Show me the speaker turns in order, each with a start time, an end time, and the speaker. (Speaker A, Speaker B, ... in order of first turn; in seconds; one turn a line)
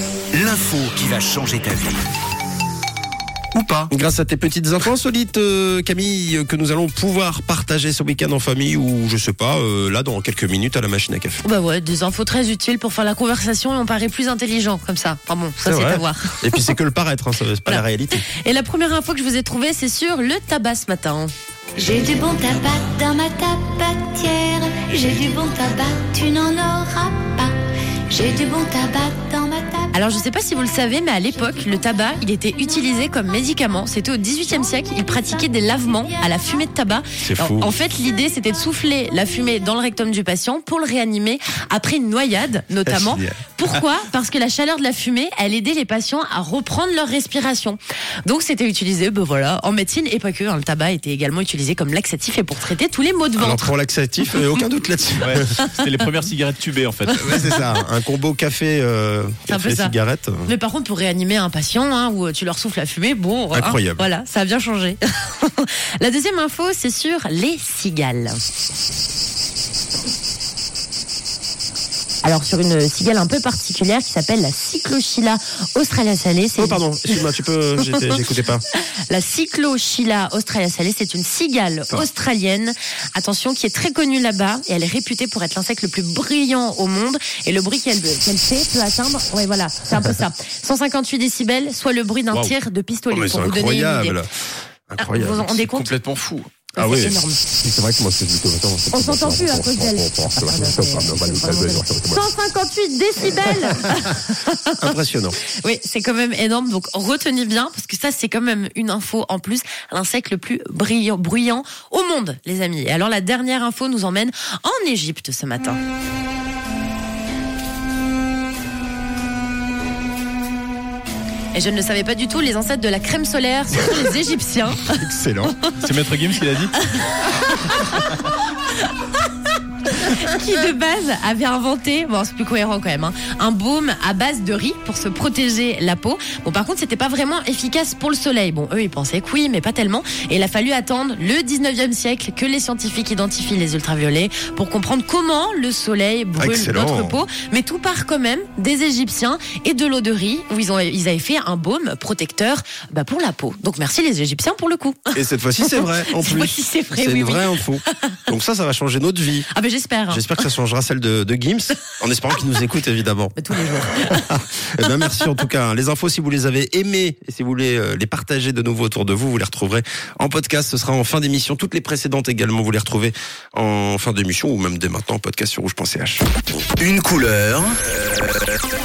Speaker A: 0.3-2.0
Speaker A: 3.5-3.9
Speaker B: 3.9-11.4
Speaker C: 11.4-16.7
Speaker B: 15.6-18.2
Speaker C: 17.6-21.3
Speaker D: 21.8-27.6
Speaker D: 28.1-29.9
Speaker C: 29.9-53.7
Speaker D: 35.0-35.8
Speaker B: 37.2-37.7
Speaker B: 42.9-43.4
Speaker B: 53.4-55.4
Speaker E: 55.2-57.5
Speaker B: 57.1-60.5
Speaker C: 59.5-68.4
Speaker B: 63.5-64.1
Speaker C: 72.2-77.3
Speaker B: 76.6-78.6
Speaker C: 78.7-94.2
Speaker B: 93.1-94.3
Speaker B: 94.9-95.7
Speaker C: 95.0-96.2
Speaker E: 95.7-96.4
Speaker C: 96.8-97.4
Speaker B: 96.8-97.2
Speaker F: 97.6-102.3
Speaker C: 98.9-104.9
Speaker B: 104.8-105.4
Speaker C: 105.5-115.8
Speaker C: 121.5-125.1
Speaker B: 125.0-125.5
Speaker E: 125.8-126.8
Speaker C: 127.0-128.9
Speaker C: 129.9-158.2
Speaker B: 146.4-147.2
Speaker B: 155.1-159.5
Speaker C: 159.5-160.5
Speaker B: 160.1-163.4
Speaker C: 163.4-164.3
Speaker B: 163.9-176.2
Speaker A: 176.8-178.5